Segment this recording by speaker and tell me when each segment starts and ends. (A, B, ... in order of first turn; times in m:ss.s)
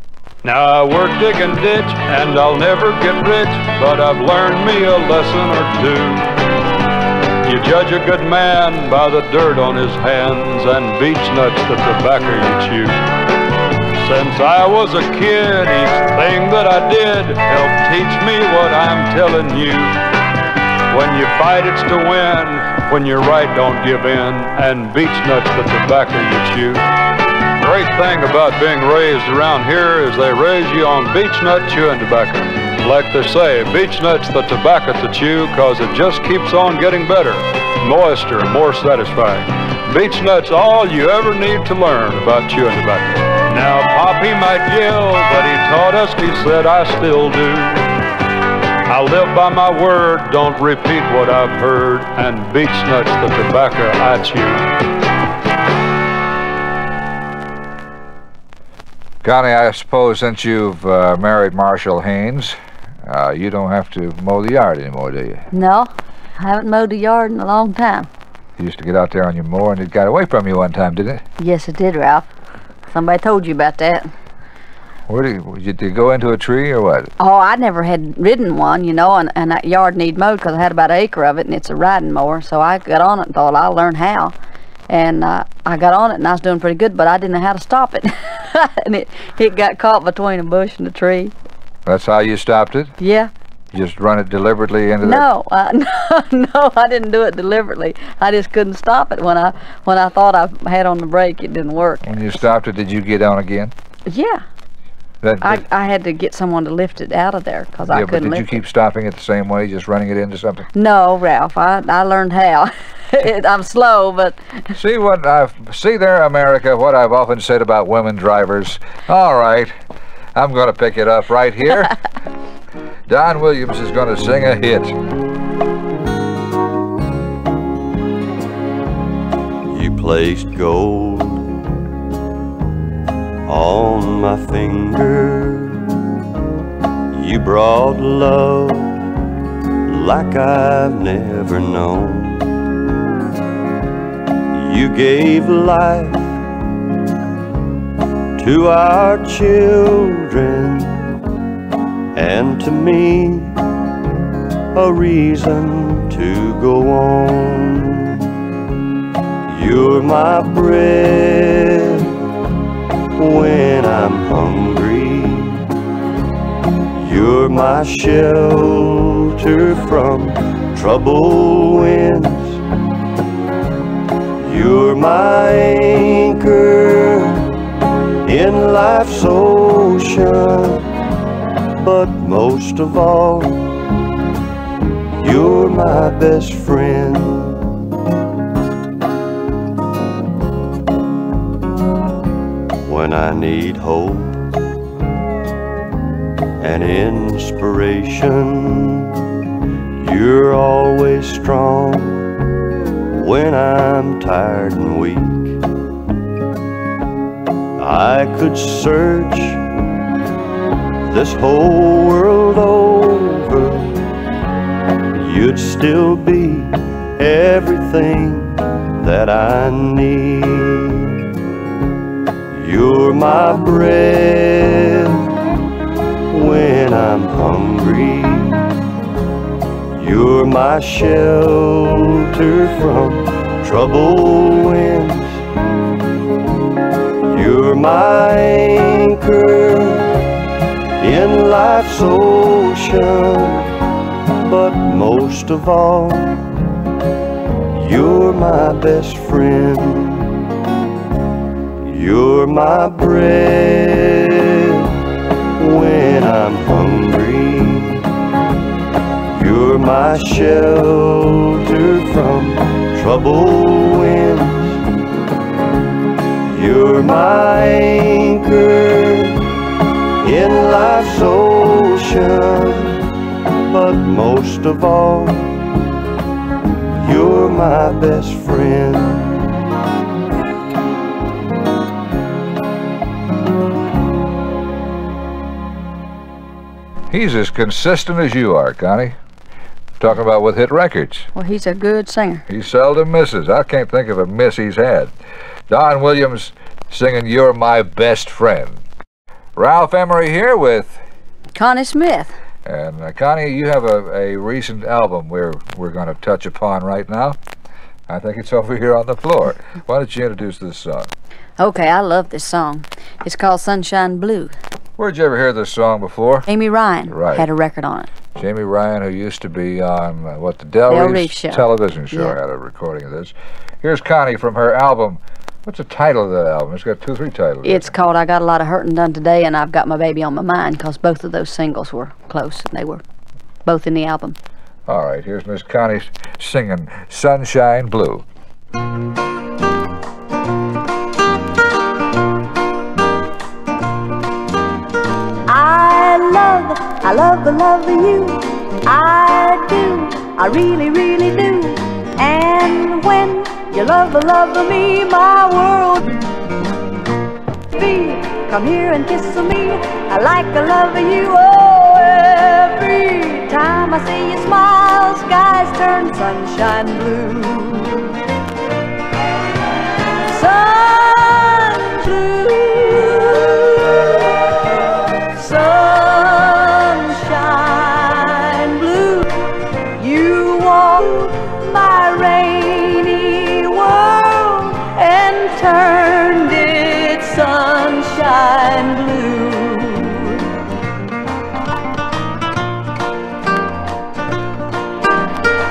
0:00.4-0:06.4 A
0:07.4-0:12.9 A
0:14.0-0:20.0 A
0:20.9-0:26.8 A
0:27.6-0:47.8 A
0:48.9-0:54.7 A
0:59.2-1:05.4 B
1:05.5-1:08.1 C
1:08.6-1:11.2 B
1:11.4-1:12.3 C
1:12.9-1:14.1 C
1:15.1-1:17.1 B
1:17.2-1:24.3 C
1:24.9-1:31.3 C
1:31.9-1:32.9 B
1:33.0-1:33.3 C
1:33.7-1:35.3 B
1:35.0-1:42.1 C
1:42.0-1:43.7 B
1:44.1-1:44.4 C
1:45.2-1:45.6 B
1:45.4-1:48.5 C
1:47.9-1:50.7 B
1:50.7-1:54.7 C
1:54.8-1:59.7 B
2:00.4-2:02.0 B
2:03.1-2:05.0 B
2:09.6-2:11.5 D
2:13.5-2:15.8 D
2:17.1-2:19.0 D
2:19.9-2:22.5 D
2:24.5-2:26.4 D
2:28.4-2:31.0 D
2:32.2-2:33.6 D
2:34.8-2:38.2 D
2:39.5-2:42.1 D
2:43.2-2:45.7 D
2:47.0-2:52.6 D
2:54.4-2:57.5 D
2:58.2-3:00.8 D
3:01.8-3:03.7 D
3:05.2-3:07.6 D
3:12.8-3:14.5 D
3:16.6-3:19.1 D
3:20.0-3:22.2 D
3:23.1-3:25.6 D
3:27.8-3:29.6 D
3:31.0-3:34.0 D
3:35.2-3:41.2 D
3:42.5-3:45.2 D
3:46.3-3:48.6 D
3:49.9-3:55.4 D
3:57.3-4:00.1 D
4:01.0-4:03.7 D
4:04.4-4:06.4 D
4:07.7-4:10.3 D
4:11.8-4:14.9 D
4:15.6-4:18.0 D
4:19.3-4:24.8 D
4:26.5-4:29.4 D
4:30.2-4:33.0 D
4:33.7-4:35.6 D
4:37.0-4:39.5 D
4:47.1-4:49.2 B
4:50.0-4:51.3 B
4:51.4-4:52.4 C
4:52.5-4:55.1 B
4:55.7-4:58.8 B
4:59.6-5:01.0 B
5:01.6-5:02.3 C
5:02.6-5:07.4 B
5:08.1-5:11.1 B
5:11.6-5:14.5 C
5:15.0-5:16.5 B
5:16.5-5:18.1 C
5:17.1-5:17.5 B
5:18.4-5:27.9 B
5:20.9-5:22.4 C
5:27.6-5:33.0 C
5:33.7-5:34.4 C
5:34.9-5:38.2 B
5:45.5-5:56.2 E
5:57.7-6:08.1 E
6:10.3-6:14.2 E
6:15.3-6:19.4 E
6:20.0-6:30.4 E